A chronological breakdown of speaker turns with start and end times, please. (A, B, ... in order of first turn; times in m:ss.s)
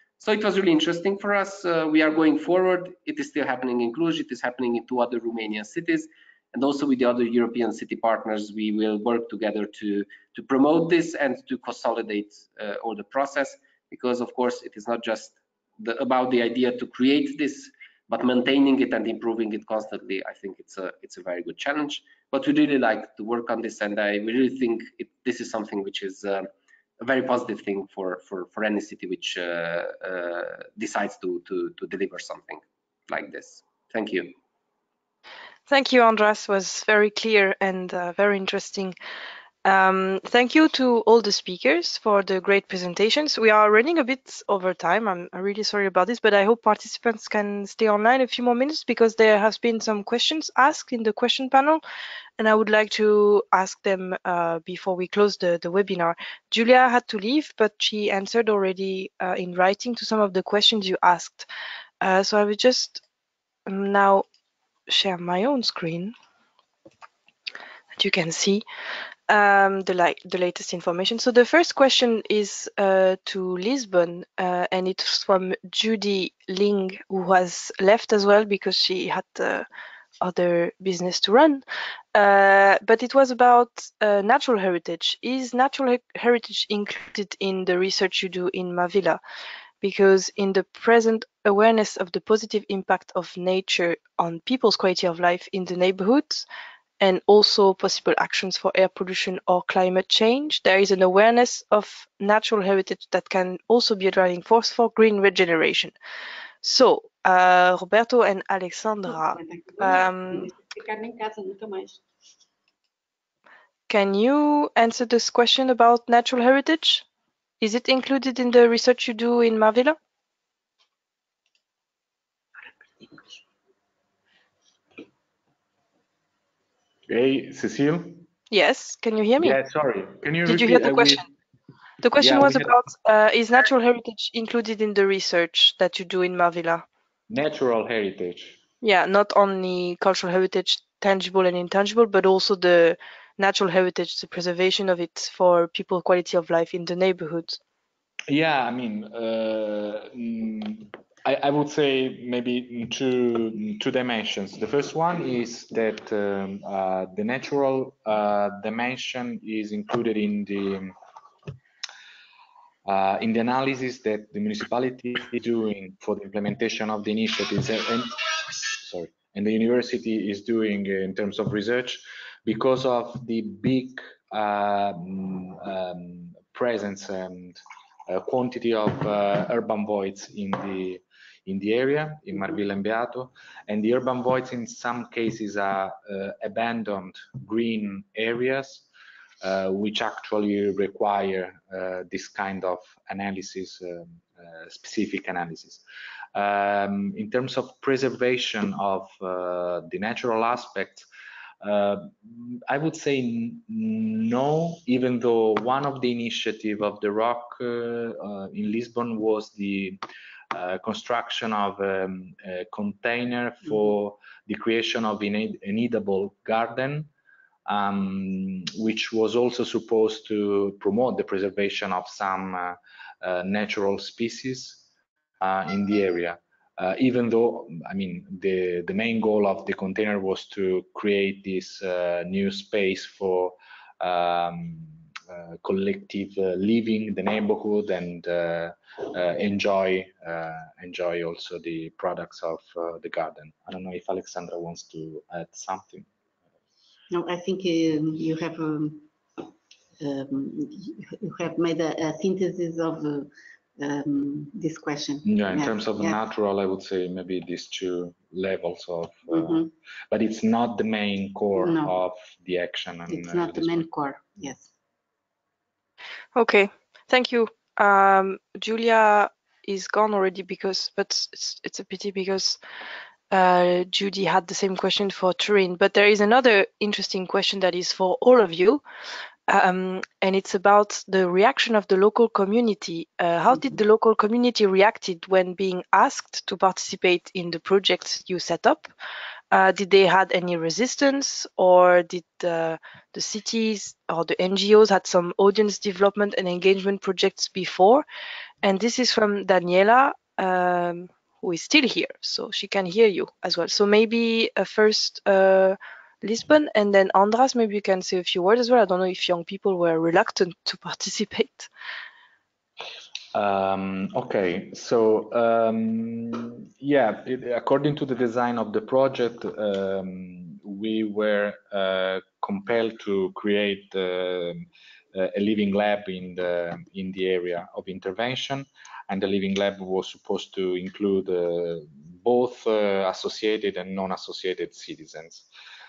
0:00.2-0:26.4 A
0:27.0-0:34.3 A
0:35.7-0:38.9 B
0:39.6-0:51.8 B
0:52.4-1:01.5 B
1:02.0-1:03.0 B
1:03.6-1:04.2 B
1:04.9-1:06.1 B
1:08.0-1:08.6 B
1:09.3-1:19.6 B
1:20.2-1:29.2 B
1:29.8-1:36.4 B
1:37.0-1:45.9 B
1:46.6-1:50.5 B
1:49.0-1:52.0 C
1:53.9-1:57.0 B
1:57.6-2:00.0 B
2:07.1-2:08.2 D
2:08.5-2:09.6 B
2:09.4-2:11.3 D
2:10.4-2:11.3 B
2:12.0-2:16.8 B
2:12.2-2:12.7 D
2:17.3-2:18.6 D
2:18.8-2:27.6 B
2:28.3-2:40.9 D
2:42.8-3:08.9 D
3:09.4-3:15.8 D
3:16.3-3:21.1 D
3:21.6-3:30.0 D
3:30.5-3:37.1 D
3:37.6-3:44.8 D
3:45.4-4:06.1 D
4:07.1-4:09.4 C
4:10.0-4:16.2 C
4:15.2-4:23.8 D
4:19.3-4:19.7 C
4:21.6-4:21.9 C
4:23.1-4:24.7 C
4:26.3-4:32.6 B
4:33.3-4:38.8 B
4:39.5-4:48.9 B
4:49.5-4:58.0 B
4:58.6-5:11.7 B
5:13.3-5:35.5 D